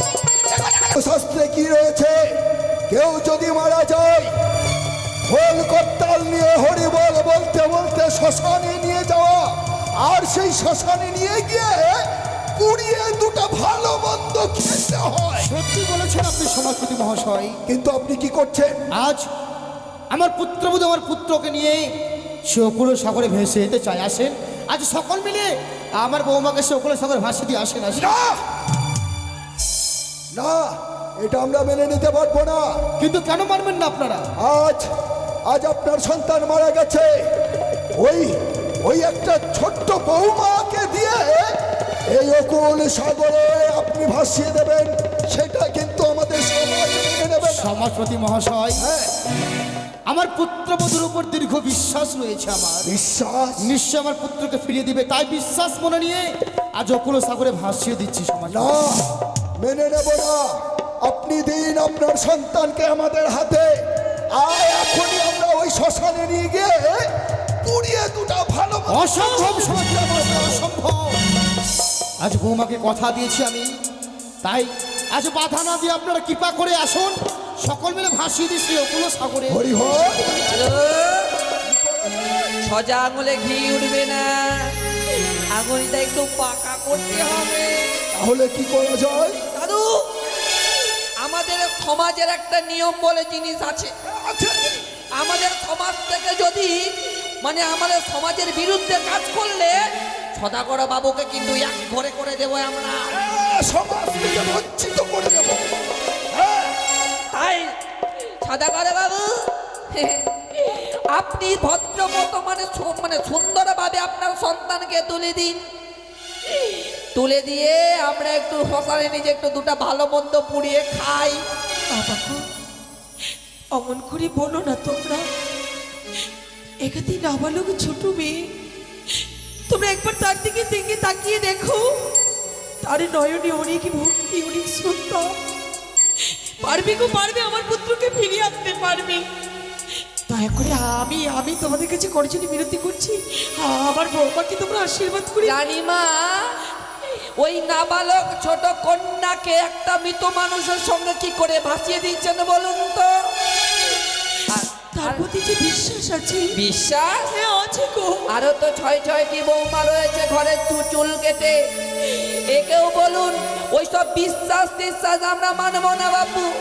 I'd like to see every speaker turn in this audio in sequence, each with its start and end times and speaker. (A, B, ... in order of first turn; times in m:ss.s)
0:00.5-0:00.9 A
0:00.9-0:02.3 B
0:02.9-0:04.3 B
0:05.3-0:15.5 B
0:15.4-0:17.6 C
0:17.7-0:18.8 B
0:18.9-0:19.3 C
0:20.1-0:21.9 C
0:22.5-0:28.1 C
0:27.9-0:28.4 B
0:30.3-0:32.8 B
0:33.0-0:34.3 C
0:34.4-0:34.9 B
0:35.5-0:37.3 B
0:37.9-0:41.5 B
0:42.1-0:47.8 B
0:47.4-0:48.9 C
0:48.8-0:49.1 B
0:50.1-0:52.9 C
0:52.8-0:53.7 B
0:53.6-0:58.8 C
0:58.5-0:59.0 B
0:59.6-1:07.1 B
1:07.6-1:10.6 B
1:08.9-1:11.2 C
1:12.2-1:13.7 C
1:14.4-1:19.7 C
1:19.5-1:20.5 B
1:20.3-1:21.3 A
1:21.6-1:22.5 B
1:22.6-1:24.7 A
1:25.5-1:28.1 A
1:28.1-1:29.4 B
1:29.5-1:30.0 A
1:31.2-1:33.9 A
1:34.1-1:34.8 B
1:35.2-1:39.8 A
1:40.4-1:43.1 A
1:43.2-1:45.7 B
1:46.3-1:46.8 B
1:47.3-1:47.7 A
1:48.4-1:55.6 A
1:56.5-2:01.4 A
2:01.9-2:02.4 D
2:03.7-2:05.3 D
2:06.8-2:08.5 D
2:09.7-2:12.0 D
2:12.8-2:15.3 D
2:16.2-2:19.3 D
2:20.3-2:25.6 D
2:25.4-2:33.3 A
2:34.5-2:35.2 A
2:34.9-2:36.5 D
2:36.5-2:37.3 A
2:37.3-2:38.3 D
2:38.3-2:46.5 A